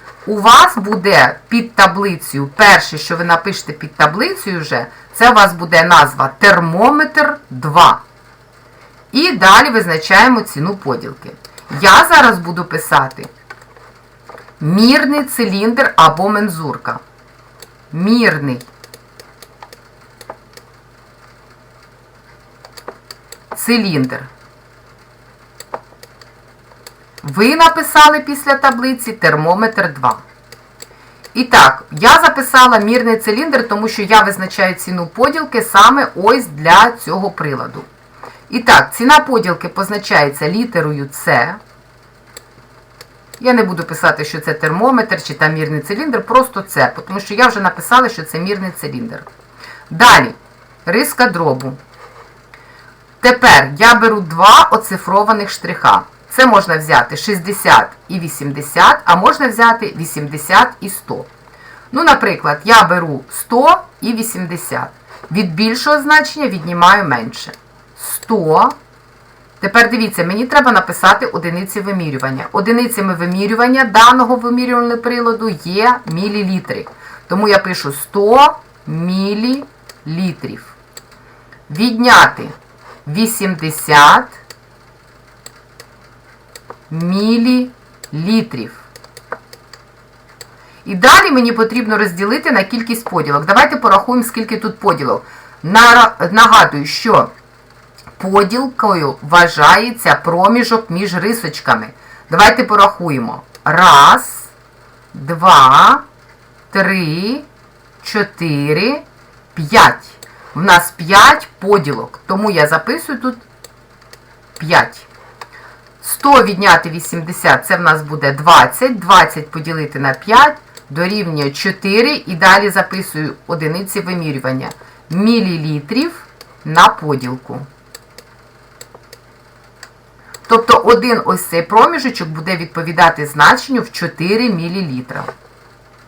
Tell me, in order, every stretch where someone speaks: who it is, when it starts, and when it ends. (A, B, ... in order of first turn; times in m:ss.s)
0:00.2-0:08.0 A
0:09.1-0:13.3 A
0:14.6-0:17.0 A
0:17.9-0:18.7 A
0:23.5-0:24.3 A
0:27.2-0:30.2 A
0:31.3-0:37.9 A
0:38.5-0:41.6 A
0:43.4-0:49.3 A
0:49.9-0:51.8 A
0:53.2-1:01.3 A
1:01.9-1:08.8 A
1:09.6-1:20.8 A
1:21.7-1:24.4 A
1:26.9-1:28.8 A
1:30.8-1:37.3 A
1:38.2-1:44.5 A
1:45.1-1:46.0 A
1:46.7-1:47.5 A
1:48.0-1:53.4 A
1:54.6-1:55.1 A
1:56.0-2:07.7 A
2:10.5-2:15.3 A